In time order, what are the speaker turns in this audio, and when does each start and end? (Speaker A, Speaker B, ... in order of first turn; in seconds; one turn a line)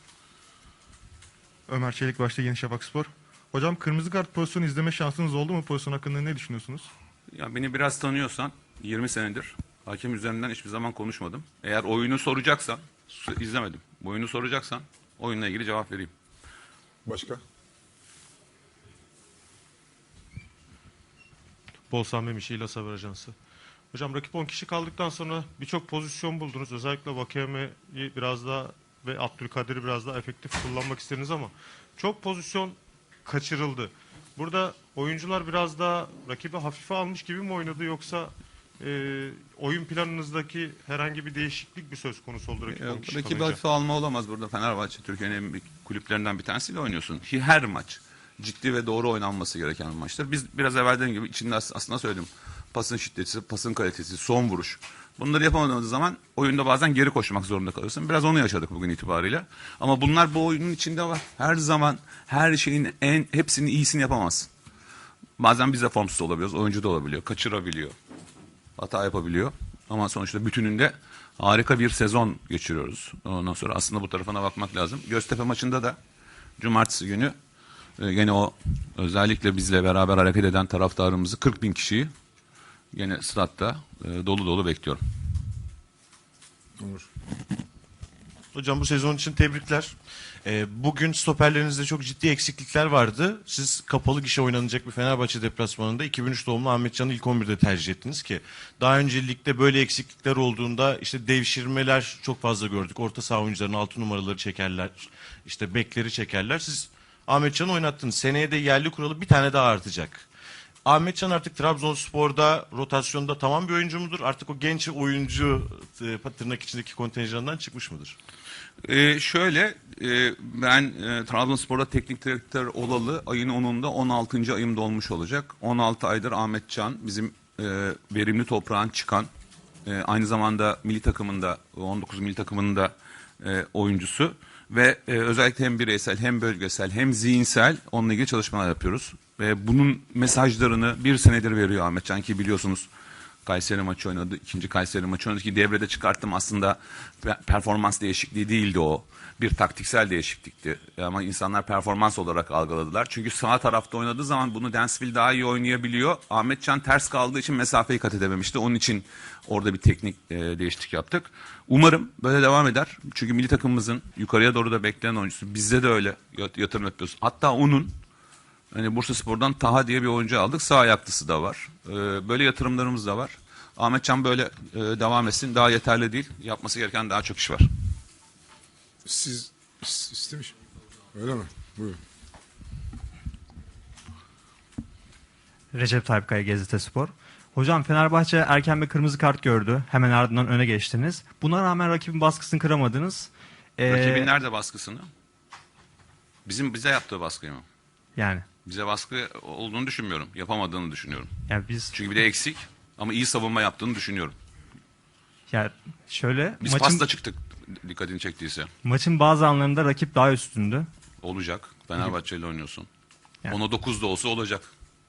Speaker A: 1.7-6.9
Speaker B: 7.3-16.1
Speaker C: 17.1-17.4
Speaker A: 21.9-23.3
Speaker A: 23.9-43.6
Speaker B: 42.7-64.5
Speaker B: 65.4-67.9
Speaker B: 68.8-76.0
Speaker B: 76.6-77.3
Speaker B: 78.0-82.1
Speaker B: 82.9-85.0
Speaker D: 88.5-110.2
Speaker D: 110.8-118.2
Speaker B: 118.8-129.3
Speaker B: 129.8-142.9
Speaker B: 143.4-167.9
Speaker B: 168.7-177.7
Speaker C: 179.1-180.5
Speaker C: 181.2-182.0
Speaker E: 185.7-194.3
Speaker B: 193.9-195.1
Speaker B: 196.4-197.6
Speaker E: 198.2-198.4
Speaker B: 198.7-201.3
Speaker E: 201.5-201.9
Speaker B: 201.9-204.3
Speaker E: 205.5-207.0
Speaker B: 206.6-208.7
Speaker E: 208.8-210.9
Speaker B: 211.2-212.9
Speaker B: 213.5-214.7